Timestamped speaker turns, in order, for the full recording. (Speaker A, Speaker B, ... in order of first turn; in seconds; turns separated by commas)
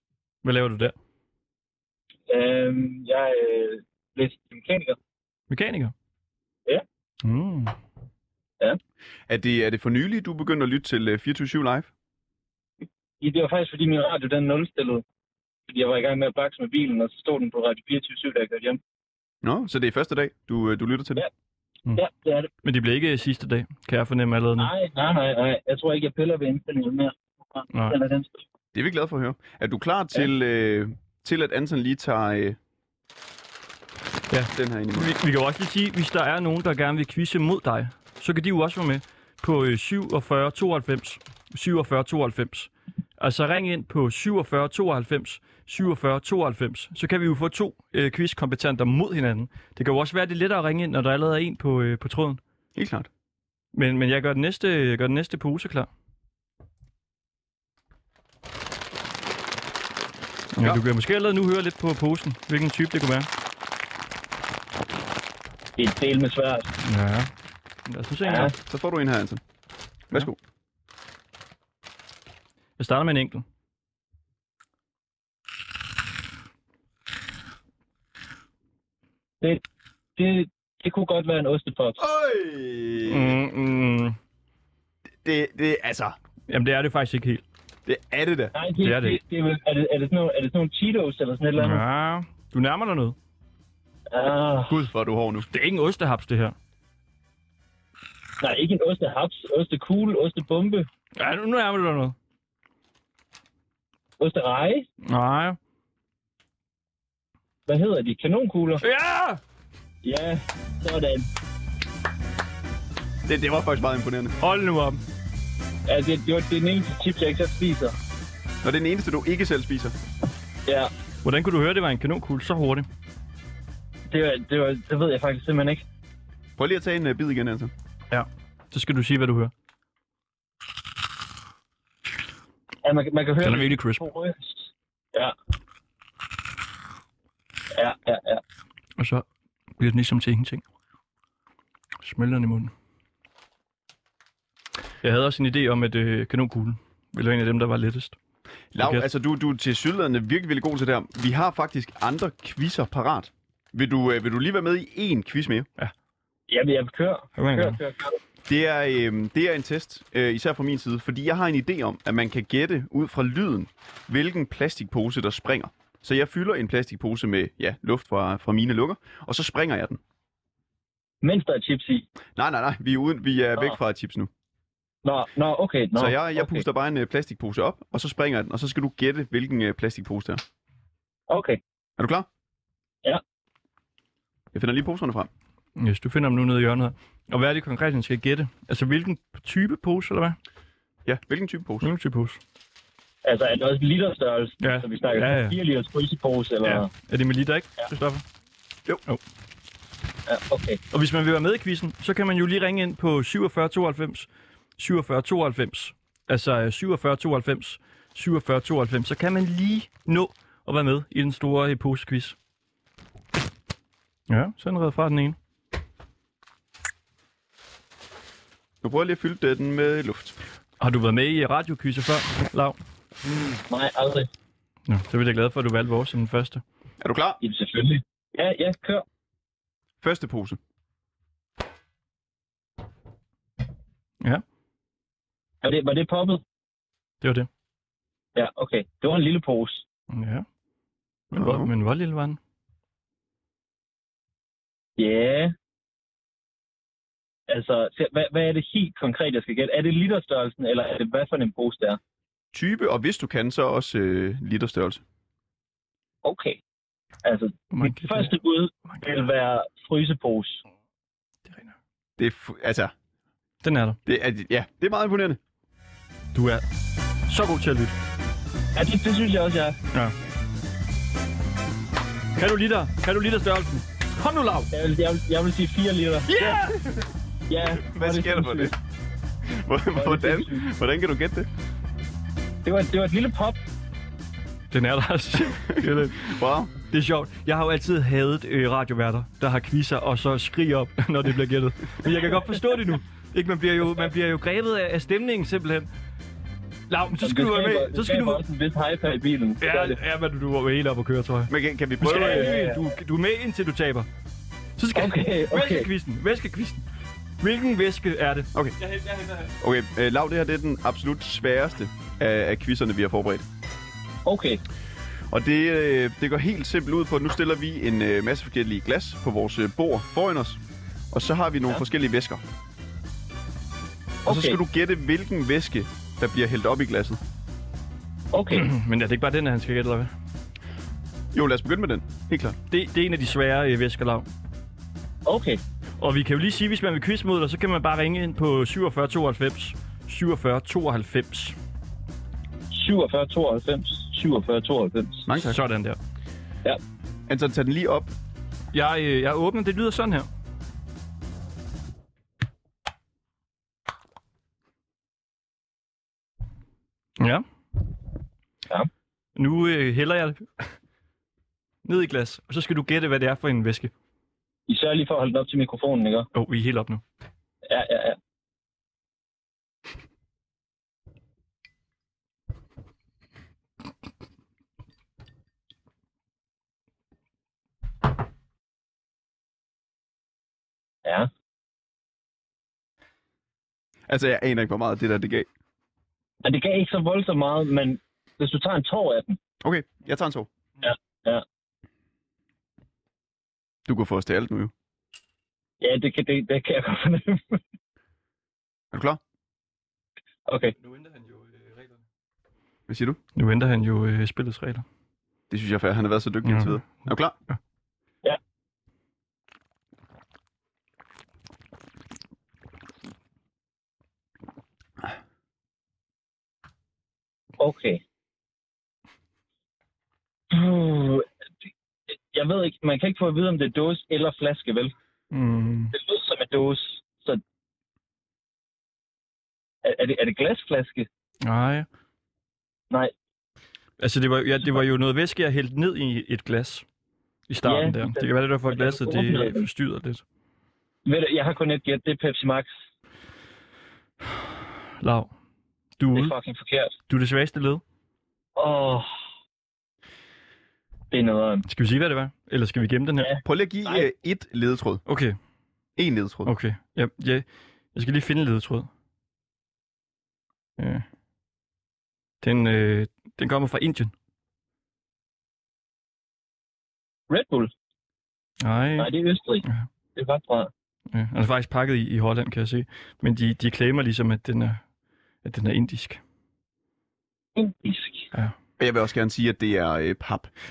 Speaker A: 0.4-0.9, Speaker B: 2.3-5.0, Speaker A: 5.5-5.9, Speaker A: 7.2-7.7, Speaker C: 9.3-11.9, Speaker B: 13.2-15.0, Speaker B: 15.7-18.8, Speaker C: 19.4-21.2, Speaker B: 21.9-22.5, Speaker A: 22.6-24.7, Speaker B: 24.6-28.4, Speaker C: 28.7-32.6, Speaker A: 34.3-52.4, Speaker C: 34.5-35.1, Speaker C: 52.7-53.1, Speaker A: 53.7-55.9, Speaker A: 60.5-63.3, Speaker B: 65.8-66.7, Speaker A: 66.8-67.3, Speaker A: 67.9-68.5, Speaker B: 68.2-68.5, Speaker C: 68.7-69.4, Speaker C: 70.1-70.4, Speaker A: 72.8-73.4, Speaker B: 80.2-82.0, Speaker C: 82.0-83.4, Speaker A: 83.0-84.2, Speaker C: 85.2-86.2, Speaker A: 86.5-87.4, Speaker C: 87.8-88.5, Speaker B: 88.5-91.8, Speaker A: 88.8-89.2, Speaker A: 91.6-93.2, Speaker B: 94.1-94.7, Speaker C: 94.7-95.5, Speaker A: 95.5-96.5, Speaker B: 98.4-100.9, Speaker A: 101.2-102.2, Speaker B: 104.2-104.8, Speaker A: 105.0-105.6, Speaker B: 107.7-108.8, Speaker A: 108.8-109.4, Speaker B: 110.0-111.3, Speaker C: 113.2-114.3, Speaker A: 114.4-115.0, Speaker B: 115.9-117.9, Speaker C: 118.6-119.9, Speaker B: 120.7-120.9, Speaker A: 121.2-122.9, Speaker B: 124.1-125.8, Speaker C: 126.6-127.7, Speaker A: 128.1-129.5, Speaker B: 132.8-135.3, Speaker A: 133.4-134.0, Speaker B: 137.7-138.4, Speaker A: 139.0-139.2, Speaker A: 139.8-140.6, Speaker A: 142.0-142.7, Speaker A: 145.0-148.2, Speaker C: 148.7-155.7, Speaker A: 148.8-149.1, Speaker B: 156.5-158.2, Speaker A: 157.3-157.8, Speaker C: 158.5-170.0, Speaker B: 171.2-172.1, Speaker C: 172.3-174.3, Speaker B: 175.0-176.6, Speaker C: 175.9-180.4, Speaker B: 181.3-181.6, Speaker C: 182.0-182.3, Speaker C: 184.5-185.3, Speaker A: 185.8-190.4, Speaker C: 191.0-191.9, Speaker A: 191.8-192.4, Speaker B: 193.2-196.9, Speaker A: 194.6-195.6, Speaker A: 196.6-198.2, Speaker B: 200.3-200.8, Speaker A: 200.9-212.3, Speaker A: 214.3-215.4, Speaker C: 218.8-220.4, Speaker A: 220.8-222.8, Speaker B: 223.7-224.3, Speaker A: 224.9-226.6, Speaker C: 227.0-227.4, Speaker B: 227.4-229.0, Speaker C: 230.0-230.6, Speaker B: 235.6-236.4, Speaker A: 237.2-237.5, Speaker B: 238.3-239.8, Speaker A: 240.1-240.4, Speaker A: 241.3-242.4, Speaker C: 241.3-241.7, Speaker B: 245.0-245.5, Speaker B: 247.5-252.0, Speaker C: 252.5-255.0, Speaker B: 256.2-256.6, Speaker B: 257.2-260.6, Speaker A: 257.7-259.0, Speaker A: 261.5-261.7, Speaker C: 262.2-262.9, Speaker A: 263.6-264.0, Speaker C: 264.1-265.4, Speaker A: 266.3-266.6, Speaker A: 267.3-267.9, Speaker B: 268.7-269.8, Speaker A: 272.4-274.7, Speaker B: 274.7-276.6, Speaker A: 276.3-276.9, Speaker B: 277.5-278.7, Speaker C: 277.8-278.7, Speaker C: 279.4-281.5, Speaker B: 279.9-280.6, Speaker B: 282.6-283.6, Speaker A: 284.7-286.3, Speaker C: 285.5-286.7, Speaker A: 286.8-295.9, Speaker A: 296.9-298.4, Speaker B: 297.2-300.0, Speaker A: 299.6-304.1, Speaker C: 301.5-302.5, Speaker B: 302.1-302.9, Speaker A: 304.8-306.8, Speaker B: 304.9-305.9, Speaker A: 307.4-309.5, Speaker C: 309.6-313.4, Speaker B: 314.2-314.6, Speaker C: 315.3-320.6, Speaker C: 321.1-322.4, Speaker B: 324.2-324.6, Speaker C: 324.2-327.2, Speaker B: 328.3-328.7, Speaker A: 328.5-330.1, Speaker C: 331.3-332.6, Speaker A: 332.7-334.3, Speaker B: 335.2-335.6, Speaker A: 336.0-341.6, Speaker B: 342.7-345.3, Speaker C: 345.2-345.6, Speaker A: 345.3-346.0, Speaker C: 347.3-348.1, Speaker A: 348.7-350.3, Speaker A: 357.2-357.4, Speaker A: 359.4-360.6, Speaker A: 361.8-363.9, Speaker B: 364.7-366.3, Speaker A: 366.3-367.0, Speaker B: 367.6-368.2, Speaker C: 384.1-385.5, Speaker B: 386.4-389.4, Speaker C: 389.6-390.5, Speaker B: 390.8-391.4, Speaker C: 393.9-394.7, Speaker B: 395.8-397.6, Speaker C: 398.9-399.2, Speaker B: 400.5-400.7, Speaker A: 400.8-402.0, Speaker C: 402.9-403.2, Speaker A: 403.3-404.9, Speaker C: 405.5-407.4, Speaker A: 406.4-406.8, Speaker B: 417.6-418.0, Speaker B: 420.5-421.2, Speaker B: 422.3-424.9, Speaker A: 425.3-425.9, Speaker B: 425.9-427.4, Speaker B: 429.8-431.1, Speaker A: 431.4-431.9, Speaker A: 434.0-436.9, Speaker A: 437.5-440.2, Speaker B: 437.6-439.6, Speaker B: 441.1-442.7, Speaker A: 445.0-445.3, Speaker A: 446.0-446.3, Speaker B: 446.1-446.9, Speaker A: 447.1-447.8, Speaker B: 448.6-449.1, Speaker B: 451.1-451.6, Speaker A: 451.6-453.3, Speaker B: 453.2-454.1, Speaker C: 453.4-455.0, Speaker A: 455.1-455.4, Speaker C: 456.0-456.5, Speaker A: 456.4-458.9, Speaker A: 460.8-461.0, Speaker A: 462.4-464.1, Speaker B: 467.3-467.7, Speaker A: 468.6-469.1, Speaker B: 469.0-470.7, Speaker A: 471.1-474.8, Speaker A: 475.4-476.2, Speaker B: 477.6-478.3, Speaker C: 478.8-480.5